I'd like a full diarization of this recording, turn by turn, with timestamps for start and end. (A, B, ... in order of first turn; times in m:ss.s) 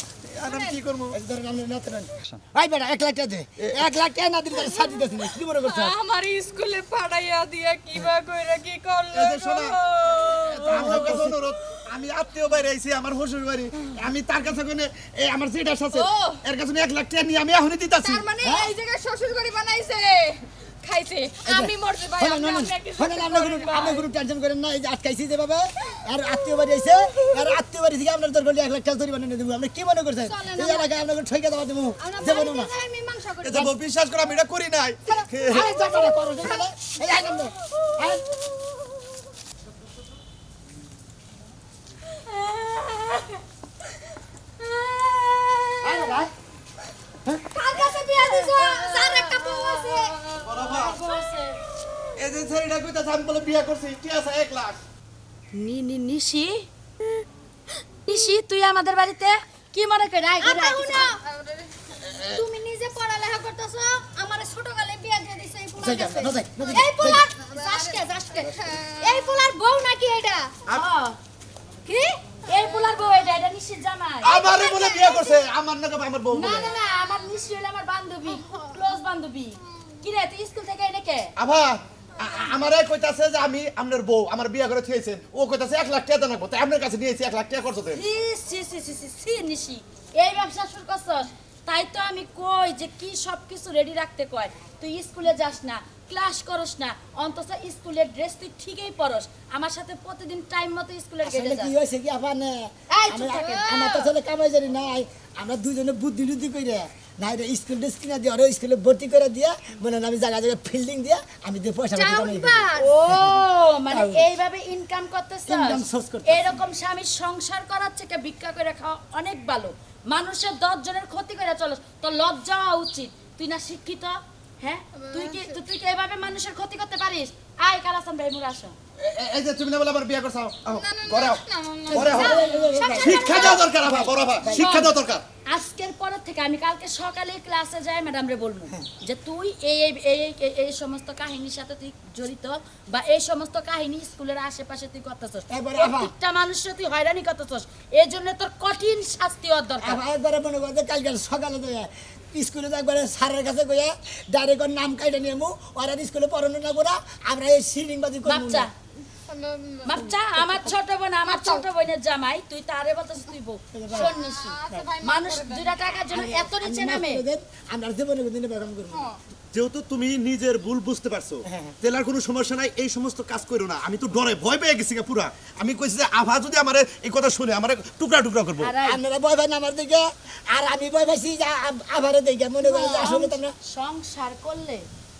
0:00.2-0:01.2 A
0:00.4-0:00.8 B
0:01.1-0:06.0 C
0:03.6-0:03.9 A
0:05.6-0:11.2 D
0:09.1-0:09.8 A
0:10.5-0:18.2 A
0:10.7-0:11.4 C
0:15.9-0:16.4 D
0:18.0-0:24.0 D
0:18.4-0:18.7 C
0:21.4-0:32.7 C
0:30.2-0:30.9 B
0:32.0-0:33.7 B
0:33.4-0:35.7 A
0:35.1-0:36.5 B
0:35.5-0:38.2 C
0:42.2-0:43.4 E
0:44.6-0:46.2 E
0:47.5-0:50.1 B
0:47.7-0:49.9 D
0:48.6-0:51.6 E
0:50.4-0:51.1 A
0:52.2-0:54.8 A
0:55.5-0:57.2 E
0:58.0-1:01.1 E
1:00.4-1:01.2 B
1:00.9-1:01.7 D
1:02.3-1:10.6 B
1:05.8-1:07.2 C
1:06.7-1:09.3 D
1:10.7-1:11.2 E
1:11.8-1:12.9 B
1:12.5-1:14.4 E
1:14.2-1:16.8 A
1:14.3-1:15.5 B
1:16.3-1:21.3 E
1:18.5-1:18.8 D
1:21.4-1:28.0 A
1:27.9-1:41.7 E
1:41.2-1:54.3 C
1:42.9-1:44.1 B
1:51.9-1:52.9 B
1:52.7-2:08.7 E
1:55.4-1:56.6 C
2:05.0-2:05.6 D
2:09.0-2:12.4 A
2:10.7-2:12.6 D
2:11.9-2:13.6 C
2:11.9-2:14.9 E
2:12.1-2:13.8 B
2:13.0-2:15.2 A
2:14.4-2:14.9 C
2:15.5-2:30.0 E
2:25.5-2:26.1 C
2:29.8-2:38.7 C
2:38.2-2:38.7 E
2:39.3-2:40.1 D
2:39.8-2:47.2 E
2:41.2-2:41.6 D
2:43.7-2:44.1 C
2:43.9-2:46.5 D
2:46.5-2:49.1 C
2:48.9-2:49.2 D
2:49.5-2:58.7 A
2:51.4-2:51.7 C
2:58.6-2:59.0 E
2:58.8-3:03.5 C
3:02.6-3:04.8 E